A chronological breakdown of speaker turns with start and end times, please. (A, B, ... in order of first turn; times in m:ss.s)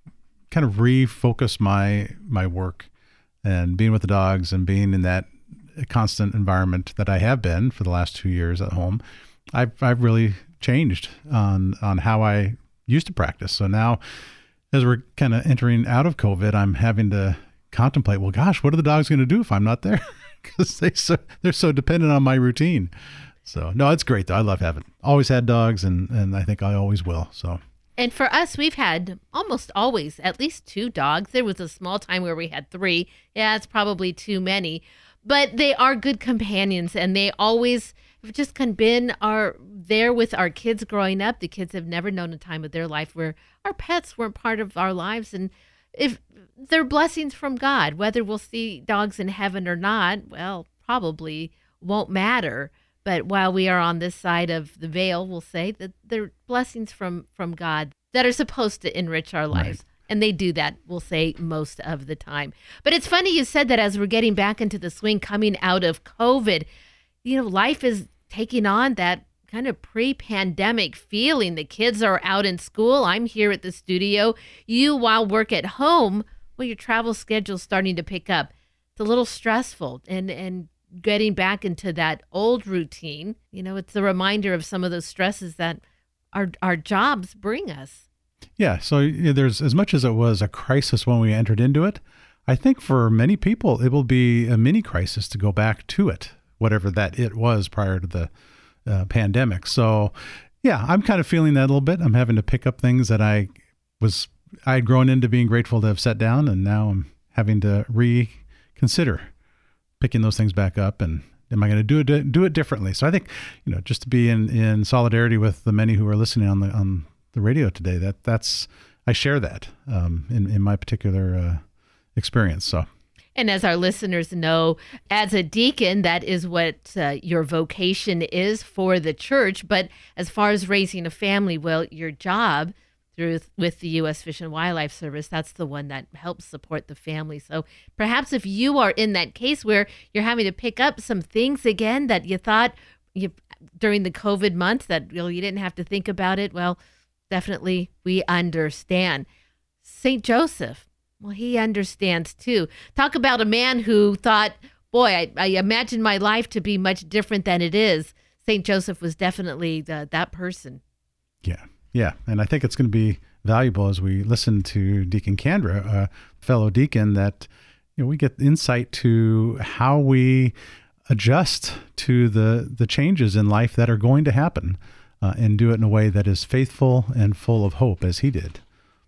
0:00.5-0:02.9 A
0:03.4-0:09.0 A
0:09.5-0:14.0 A
0:14.7-0:22.9 A
0:23.4-0:27.6 A
0:28.0-1:06.7 B
0:59.5-0:59.8 A
1:07.2-1:25.8 B
1:26.3-1:28.0 B
1:28.6-1:38.3 A
1:38.8-1:49.3 A
1:50.0-2:01.6 A
2:02.2-2:02.9 A
2:03.4-2:26.8 B
2:27.3-2:29.2 B
2:29.8-2:40.8 B
2:41.4-2:50.5 A
2:51.1-2:58.6 A